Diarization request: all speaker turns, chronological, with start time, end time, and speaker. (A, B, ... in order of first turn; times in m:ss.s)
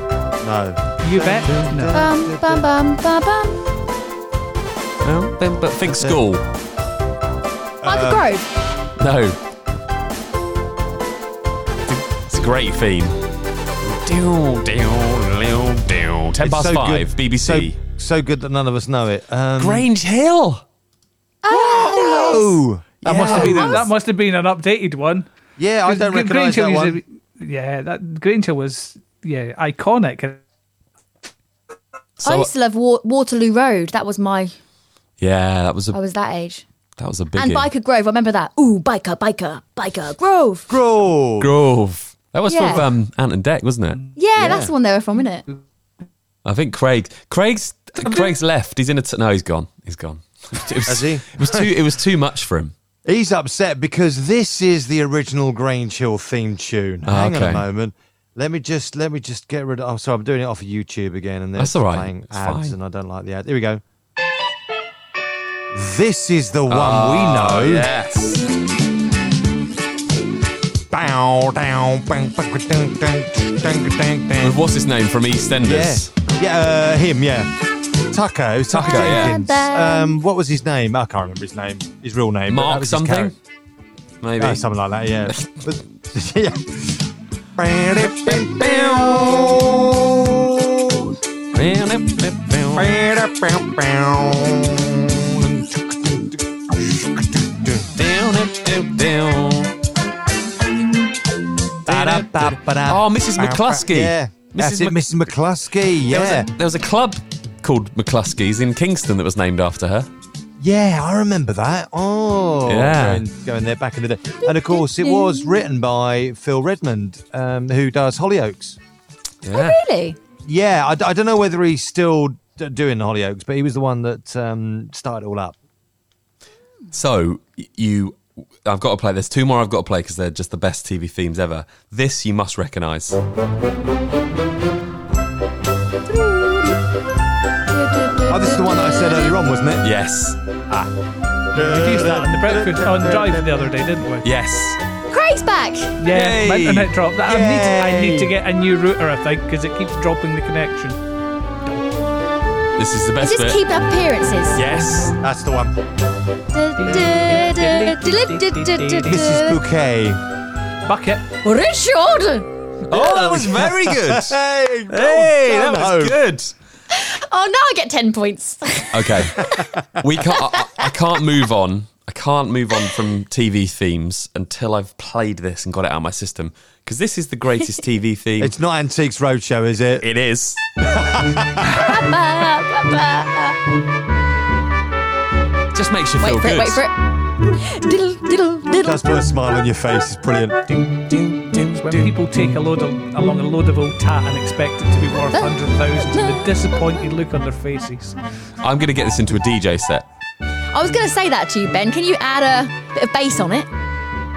0:00.4-0:02.7 A
0:01.0-0:02.0 B
0:01.9-0:03.6 C
0:05.0-0:06.4 D
0:05.9-0:06.2 A
0:07.8-0:08.2 A
0:07.8-0:08.5 C
0:09.0-0:09.4 D
0:11.9-0:13.2 D
0:13.8-0:17.8 D
0:16.4-0:19.9 A
0:19.6-0:20.6 D
0:21.4-0:22.6 C
0:21.5-0:23.8 A
0:23.0-0:25.3 B
0:23.1-0:23.5 D
0:23.3-0:23.8 C
0:25.6-0:27.0 A
0:25.9-0:30.4 B
0:32.2-0:32.5 D
0:32.2-0:34.5 C
0:35.2-0:36.0 D
0:35.9-0:36.6 C
0:37.0-0:37.7 D
0:37.3-0:40.7 C
0:40.7-0:41.5 A
0:41.4-0:44.1 D
0:42.5-0:42.9 C
0:44.2-0:45.5 C
0:44.4-0:44.7 A
0:46.4-0:52.7 D
0:50.8-0:51.7 A
0:53.0-1:03.8 A
0:57.1-0:57.7 D
1:01.6-1:02.8 D
1:05.7-1:07.9 A
1:06.7-1:08.5 D
1:10.9-1:14.6 A
1:14.4-1:16.1 D
1:15.6-1:23.3 A
1:18.7-1:19.4 D
1:18.8-1:20.2 C
1:22.5-1:23.4 D
1:24.2-1:24.6 D
1:24.4-1:31.2 A
1:25.3-1:25.7 D
1:28.0-1:29.7 D
1:31.5-1:33.0 D
1:32.7-1:37.9 A
1:38.0-1:39.8 D
1:41.9-1:45.0 D
1:41.9-1:46.5 A
1:46.1-1:50.1 D
1:50.6-1:58.8 A
1:52.6-1:53.3 D
1:54.4-1:55.6 C
1:59.4-1:59.8 D
1:59.5-2:00.2 C
2:00.5-2:05.6 A
2:06.9-2:13.2 D
2:17.7-2:19.4 C
2:18.3-2:19.9 A
2:19.8-2:20.4 D
2:21.5-2:23.7 A
2:21.6-2:24.3 B
2:24.2-2:24.8 D
2:25.1-2:26.0 C
2:26.0-2:31.0 B
2:26.1-2:26.9 D
2:27.2-2:28.3 A
2:32.8-2:33.6 D
2:33.2-2:34.6 C
2:34.5-2:35.2 D
2:35.2-2:35.8 A
2:36.5-2:39.6 C
2:36.8-2:39.3 B
2:39.0-2:40.2 A
2:40.9-2:41.3 B
2:41.4-2:42.5 C
2:42.9-2:44.4 D
2:42.9-2:46.2 A
2:44.9-2:46.5 D
2:46.9-2:49.6 C
2:48.9-2:58.5 D
2:49.4-2:50.0 A
2:50.5-2:50.9 C
2:58.4-3:00.1 A
3:00.0-3:00.6 D
3:00.8-3:01.8 A
3:01.6-3:03.6 C
3:05.7-3:06.8 D
3:06.2-3:09.0 C
3:08.8-3:10.8 A
3:10.8-3:12.1 D
3:11.8-3:18.2 B
3:15.3-3:16.5 C
3:18.6-3:20.1 D
3:20.7-3:23.7 C